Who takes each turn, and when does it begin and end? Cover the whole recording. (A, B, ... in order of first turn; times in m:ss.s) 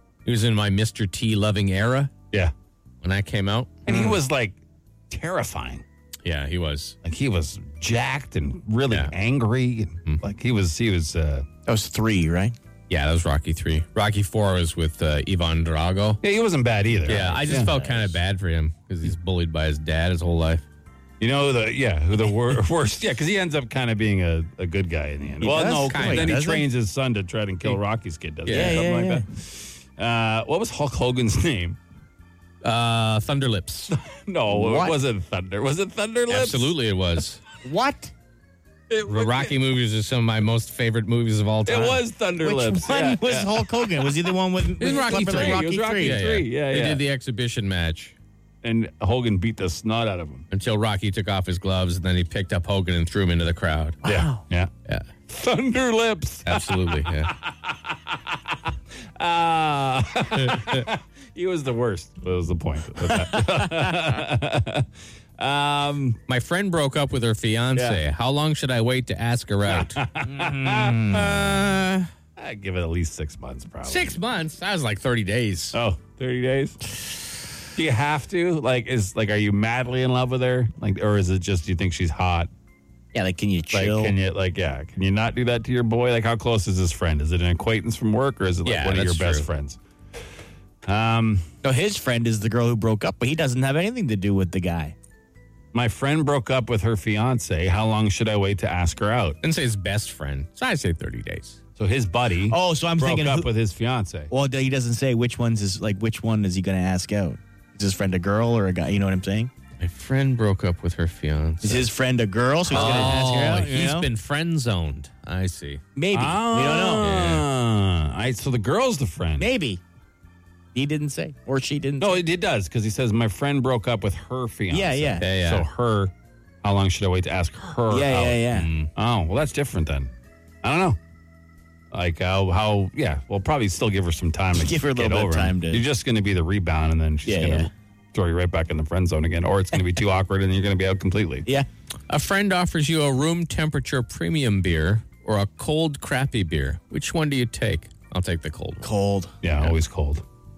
0:00.2-0:02.1 A
0:03.0-0:04.0 A
0:03.9-0:04.6 B
0:05.1-0:05.8 B
0:06.2-0:07.0 A
0:07.0-0:11.5 B
0:11.6-0:12.6 C
0:12.9-0:16.2 A
0:16.2-0:17.7 B
0:17.0-0:20.6 A
0:17.5-0:18.2 C
0:21.2-0:31.8 B
0:25.4-0:26.6 C
0:25.5-0:26.4 A
0:28.4-0:28.9 A
0:28.5-0:29.2 C
0:32.6-0:33.9 A
0:33.9-0:36.7 B
0:34.5-0:35.0 C
0:36.3-0:37.4 A
0:37.6-0:38.1 C
0:38.9-0:39.6 B
0:39.0-0:42.0 A
0:41.6-0:43.8 B
0:42.4-0:46.2 C
0:44.8-0:47.0 B
0:44.8-0:48.1 A
0:48.6-0:50.4 B
0:50.5-0:54.0 A
0:54.0-0:54.4 C
0:54.0-0:54.7 B
0:55.3-0:58.6 B
0:56.5-0:57.3 A
0:59.2-1:06.2 B
1:00.5-1:00.8 A
1:06.3-1:10.0 A
1:09.6-1:11.5 B
1:10.2-1:11.2 C
1:11.1-1:12.0 A
1:12.4-1:14.2 B
1:13.8-1:15.8 A
1:15.7-1:16.8 B
1:17.7-1:22.5 B
1:23.1-1:24.1 C
1:23.7-1:29.8 B
1:28.6-1:29.5 A
1:30.8-1:31.5 B
1:31.6-1:34.9 C
1:35.7-1:39.4 B
1:39.4-1:41.6 A
1:41.8-1:44.3 B
1:42.5-1:43.5 C
1:44.3-1:49.5 C
1:49.8-1:51.9 A
1:51.6-1:54.1 C
1:52.7-1:53.2 B
1:52.7-1:55.8 A
1:56.0-1:57.1 C
1:56.1-1:59.5 B
1:57.0-1:57.4 A
1:59.4-1:59.8 C
2:00.7-2:02.2 C
2:02.0-2:10.1 B
2:04.7-2:05.2 C
2:05.2-2:05.7 A
2:07.9-2:08.7 C
2:08.5-2:08.9 A
2:10.6-2:11.0 B
2:11.9-2:21.5 B
2:14.6-2:15.8 C
2:17.2-2:17.7 C
2:22.1-2:28.9 A
2:28.8-2:29.3 C
2:29.4-2:30.2 B